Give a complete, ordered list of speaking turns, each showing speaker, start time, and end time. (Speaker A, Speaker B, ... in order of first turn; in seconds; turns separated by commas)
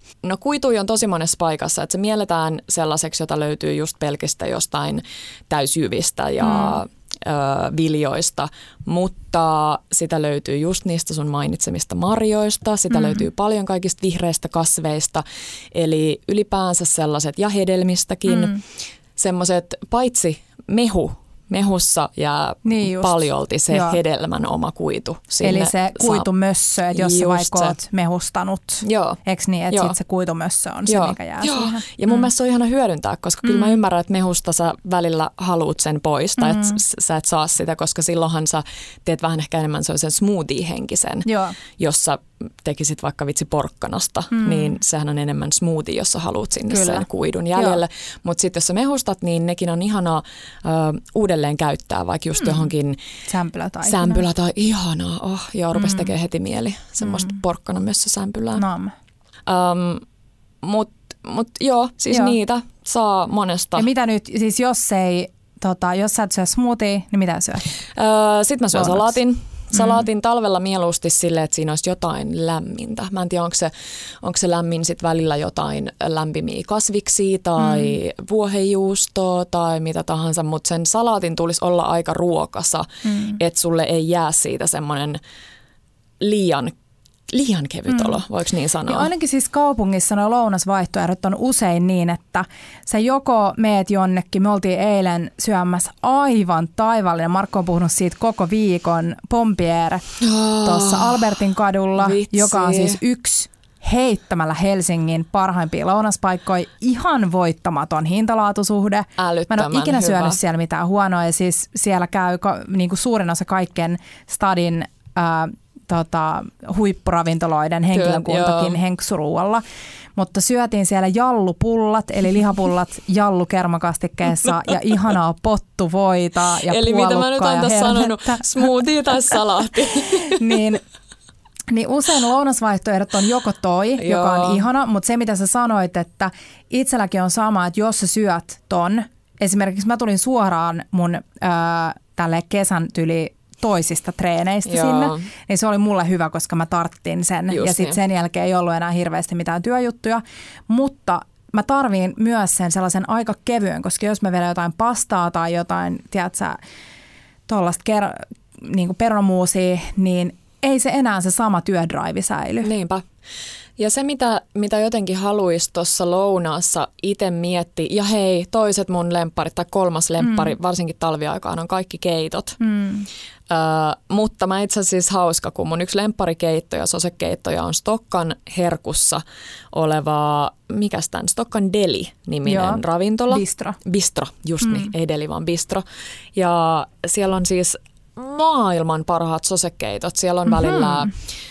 Speaker A: 0.2-18.6, Speaker B: 6.4-6.8, Speaker B: 12.9-13.2, Speaker B: 18.3-18.6, Speaker A: 19.1-26.2, Speaker B: 22.6-23.2, Speaker B: 23.7-24.0, Speaker B: 25.4-32.2, Speaker A: 26.9-27.8, Speaker A: 28.8-29.2, Speaker A: 29.7-29.9, Speaker A: 30.9-53.0, Speaker B: 33.4-33.8, Speaker B: 36.4-36.8, Speaker B: 41.2-41.5, Speaker B: 44.3-44.7, Speaker B: 46.7-47.8, Speaker B: 53.3-54.2, Speaker A: 53.8-58.6, Speaker B: 55.7-56.1, Speaker B: 57.0-57.4, Speaker B: 58.6-58.9, Speaker A: 59.5-60.0, Speaker A: 60.6-63.9, Speaker B: 63.8-67.6, Speaker A: 67.9-73.7, Speaker B: 68.7-69.2, Speaker B: 69.7-70.0, Speaker A: 74.2-85.2, Speaker B: 77.6-78.0, Speaker B: 83.0-83.4, Speaker A: 86.2-86.7, Speaker A: 87.3-89.1, Speaker B: 87.9-88.2, Speaker B: 88.9-100.0, Speaker A: 100.2-101.3, Speaker B: 100.6-119.6, Speaker A: 102.0-103.0, Speaker A: 109.2-110.4, Speaker A: 117.9-118.8, Speaker B: 120.2-128.7, Speaker A: 126.6-130.6, Speaker B: 130.2-130.8, Speaker B: 131.7-156.6, Speaker A: 134.0-134.6, Speaker A: 144.7-145.3, Speaker A: 147.5-148.0, Speaker B: 157.5-162.7, Speaker A: 162.6-163.1, Speaker A: 163.8-172.6, Speaker B: 170.2-170.5, Speaker B: 172.6-173.1, Speaker A: 173.5-179.2, Speaker A: 179.7-191.2, Speaker B: 182.4-183.8, Speaker B: 184.6-184.9, Speaker B: 190.5-191.1